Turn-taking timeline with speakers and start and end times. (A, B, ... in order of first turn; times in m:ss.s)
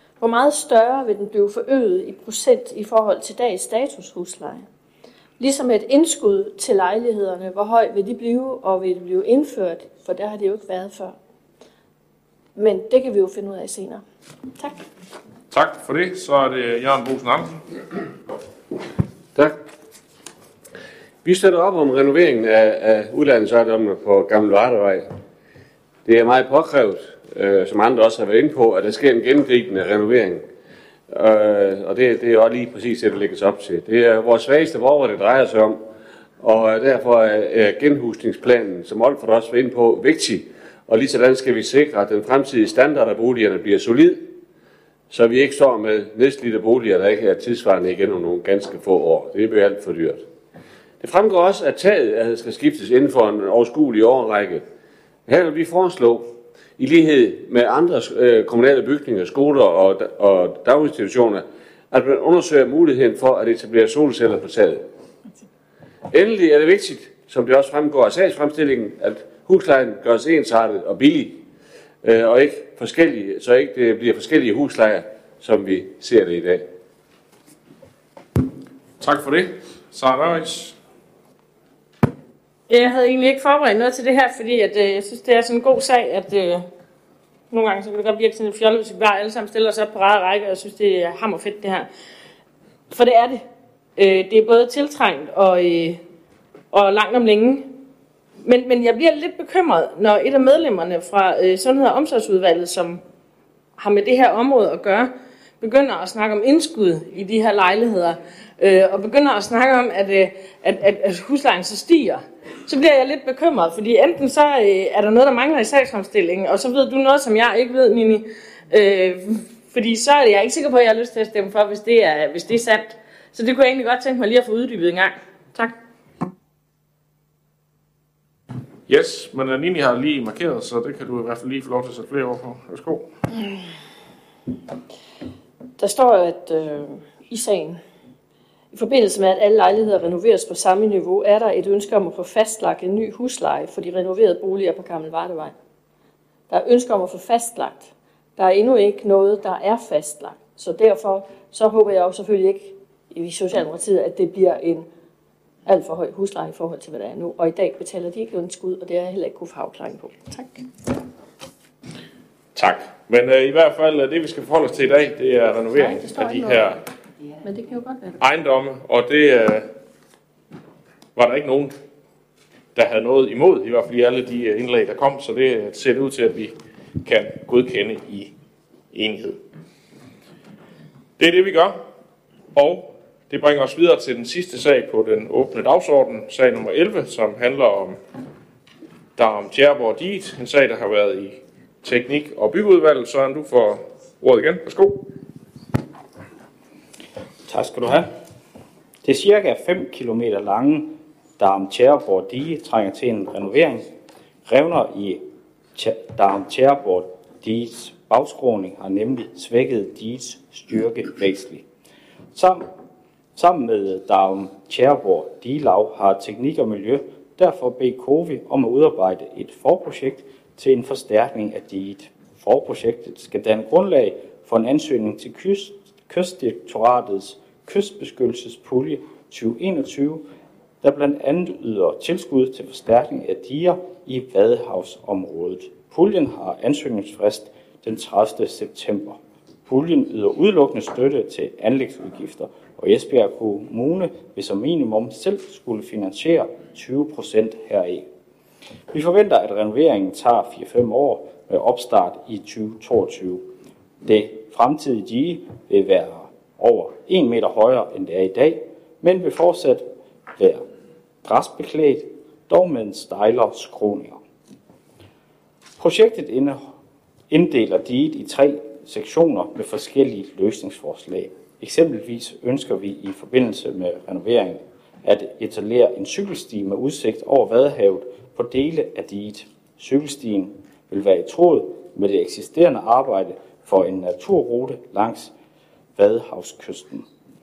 0:00.2-0:04.7 A
0:05.4-0:11.2 A
0:12.5-0:14.0 A
0:14.6-0:14.8 A
0:15.5-0:17.6 B
0:21.2-0:25.1 C
0:26.0-0:30.4 C
0:31.1-0:35.8 C
0:36.4-0:44.3 C
0:45.1-0:50.2 C
0:51.0-0:54.6 C
0:55.3-1:04.8 C
1:06.1-1:11.4 C
1:12.0-1:16.7 C
1:19.0-1:20.8 B
1:22.7-1:26.7 D
1:27.5-1:31.9 D
1:32.9-1:33.4 D
1:34.0-1:36.0 D
1:36.7-1:37.8 D
1:38.4-1:43.0 D
1:43.8-2:05.7 D
2:08.9-2:13.1 B
2:15.8-2:17.8 A
2:18.7-2:25.5 A
2:26.5-2:34.9 A
2:35.6-2:40.6 A
2:42.5-2:46.8 B
2:45.9-2:46.7 A
2:47.4-2:48.2 A
2:48.2-2:49.7 B
2:51.2-2:51.8 B
2:52.7-2:58.3 B
2:58.9-2:59.4 B
3:01.2-3:01.8 B
3:02.5-3:08.0 B
3:09.2-3:15.1 B
3:17.4-3:18.1 E
3:19.0-3:23.9 E
3:24.4-3:31.6 E
3:32.3-3:32.7 E
3:33.4-3:50.2 E
3:50.8-4:08.1 E
4:08.9-4:13.5 E
4:14.0-4:20.6 E
4:21.2-4:24.2 E
4:25.8-4:26.7 E
4:27.3-4:45.3 E
4:46.0-4:47.0 E